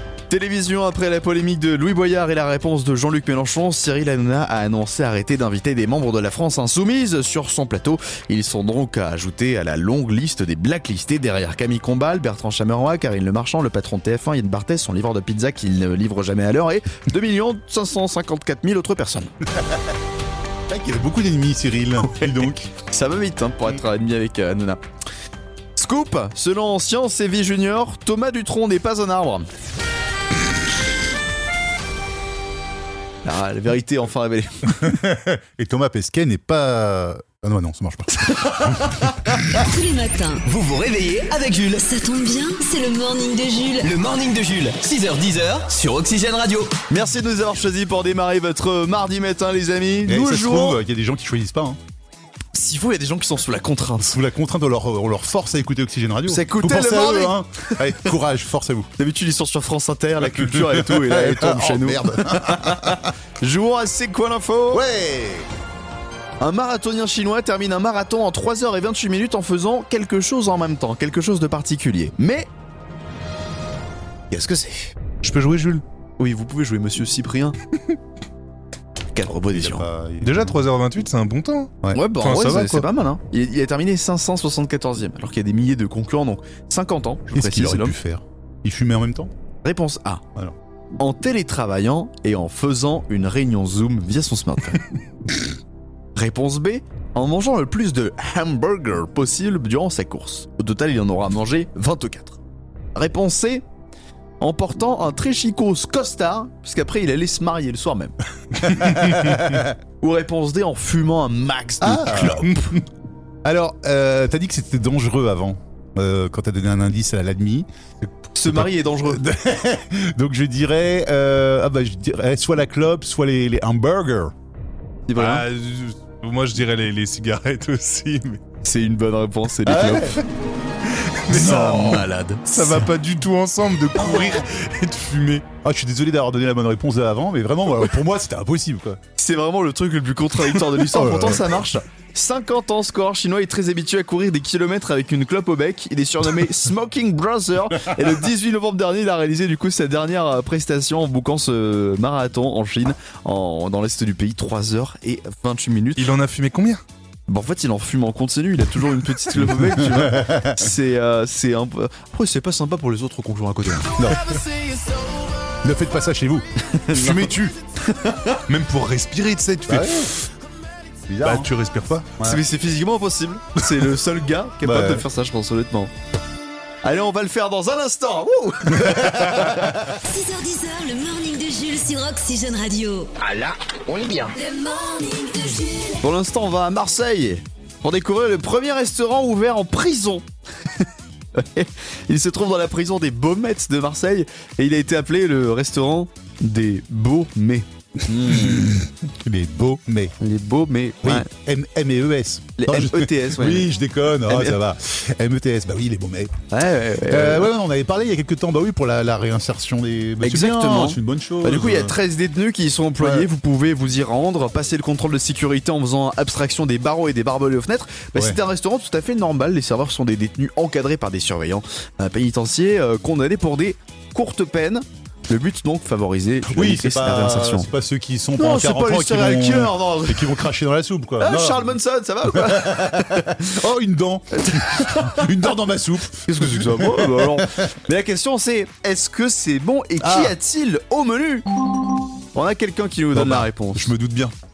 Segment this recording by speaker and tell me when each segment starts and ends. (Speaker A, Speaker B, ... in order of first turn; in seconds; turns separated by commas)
Speaker A: 0.3-19.3, Speaker B: 19.5-19.9, Speaker B: 20.7-22.7, Speaker A: 22.1-24.8, Speaker A: 25.8-29.5, Speaker A: 33.2-34.9, Speaker B: 34.7-39.0, Speaker A: 38.4-38.7, Speaker C: 39.5-40.4, Speaker D: 40.5-41.8, Speaker C: 41.8-43.9, Speaker D: 43.8-46.7, Speaker A: 46.9-50.8, Speaker B: 50.0-51.8, Speaker A: 52.5-54.1, Speaker B: 54.0-58.9, Speaker A: 56.3-57.7, Speaker A: 59.0-64.8, Speaker B: 60.5-63.1, Speaker B: 64.7-65.5, Speaker A: 66.4-72.5, Speaker A: 74.3-74.9, Speaker E: 75.2-75.8, Speaker A: 76.2-77.5, Speaker A: 79.1-79.9, Speaker B: 79.5-80.4, Speaker E: 80.2-82.9, Speaker A: 81.9-88.0, Speaker B: 87.3-89.3, Speaker A: 89.6-90.2, Speaker A: 91.0-94.8, Speaker A: 96.1-102.4, Speaker A: 102.9-103.6, Speaker A: 104.4-108.1, Speaker B: 108.6-109.8, Speaker A: 110.0-112.7, Speaker B: 111.8-112.8, Speaker B: 113.4-117.7, Speaker A: 118.3-119.2, Speaker B: 118.5-124.3, Speaker A: 125.1-125.4, Speaker E: 125.2-128.4, Speaker A: 128.6-130.2, Speaker B: 129.6-130.2, Speaker E: 130.9-135.5, Speaker A: 131.3-132.9, Speaker B: 131.3-132.0, Speaker B: 134.0-134.4, Speaker B: 135.6-139.0, Speaker A: 139.2-156.1, Speaker B: 140.9-141.4, Speaker E: 155.9-156.8, Speaker A: 157.3-165.0, Speaker B: 159.3-160.7, Speaker B: 163.9-164.3, Speaker B: 165.6-167.6, Speaker A: 166.6-168.4, Speaker E: 168.5-170.2, Speaker B: 169.7-170.1, Speaker B: 171.1-171.5, Speaker E: 171.2-172.1, Speaker B: 172.2-172.4, Speaker A: 172.2-175.9, Speaker B: 174.6-175.0, Speaker A: 176.8-179.7, Speaker B: 178.8-179.3, Speaker C: 179.8-183.1, Speaker D: 183.2-184.3, Speaker C: 184.3-186.0, Speaker A: 186.0-190.2, Speaker A: 190.8-198.8, Speaker B: 198.1-200.1, Speaker A: 200.2-201.3, Speaker B: 201.0-206.3, Speaker A: 202.6-203.7, Speaker A: 204.3-204.6, Speaker A: 206.5-207.5, Speaker B: 207.1-211.9, Speaker A: 210.2-227.7, Speaker B: 213.0-213.3, Speaker B: 226.5-231.7, Speaker A: 228.4-230.4, Speaker A: 231.2-233.4, Speaker B: 232.3-237.7, Speaker A: 234.3-235.4, Speaker A: 236.2-241.4, Speaker B: 240.0-240.3, Speaker A: 242.3-243.9, Speaker B: 243.1-244.3